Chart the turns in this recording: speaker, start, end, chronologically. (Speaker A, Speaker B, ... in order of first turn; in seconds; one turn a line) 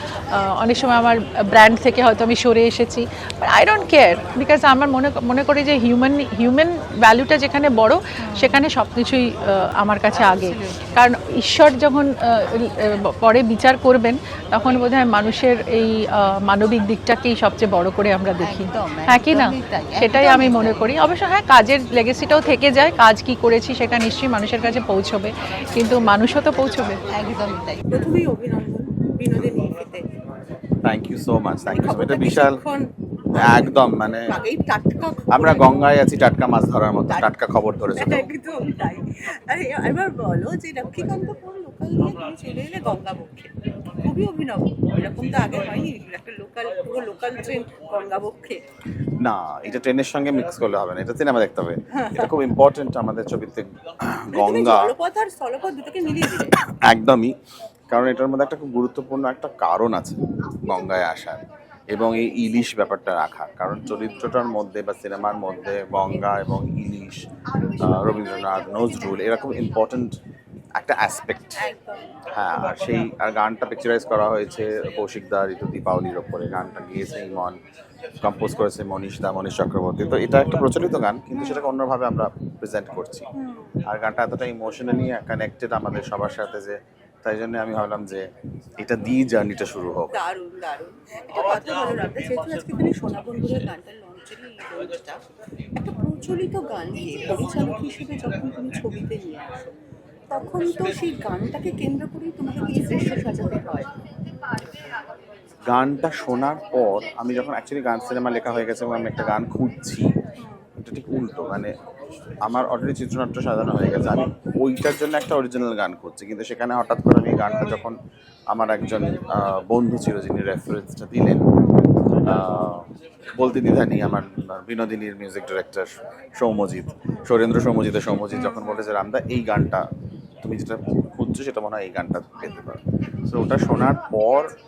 Speaker A: 0.4-27.0
Speaker B: 8.2-8.6
Speaker B: 10.1-11.1
Speaker B: 18.4-21.0
Speaker B: 27.1-30.0
Speaker C: 30.8-32.6
Speaker B: 31.7-35.9
Speaker C: 33.4-34.3
Speaker C: 35.3-38.3
Speaker B: 37.9-48.6
Speaker C: 49.2-54.9
Speaker B: 52.0-52.3
Speaker B: 54.3-56.5
Speaker C: 56.6-57.3
Speaker C: 57.9-61.4
Speaker C: 61.9-67.2
Speaker C: 67.8-70.2
Speaker C: 70.8-71.6
Speaker B: 71.6-72.1
Speaker C: 72.3-77.6
Speaker C: 78.2-83.3
Speaker B: 81.4-81.7
Speaker B: 83.4-83.7
Speaker C: 83.9-88.2
Speaker C: 88.8-90.1
Speaker B: 90.1-95.2
Speaker B: 95.8-99.7
Speaker B: 100.3-103.9
Speaker C: 105.7-110.1
Speaker C: 110.8-111.7
Speaker C: 112.4-118.0
Speaker C: 118.5-121.4
Speaker C: 122.3-122.8
Speaker C: 123.4-129.8
Speaker B: 128.4-128.8
Speaker C: 130.4-134.5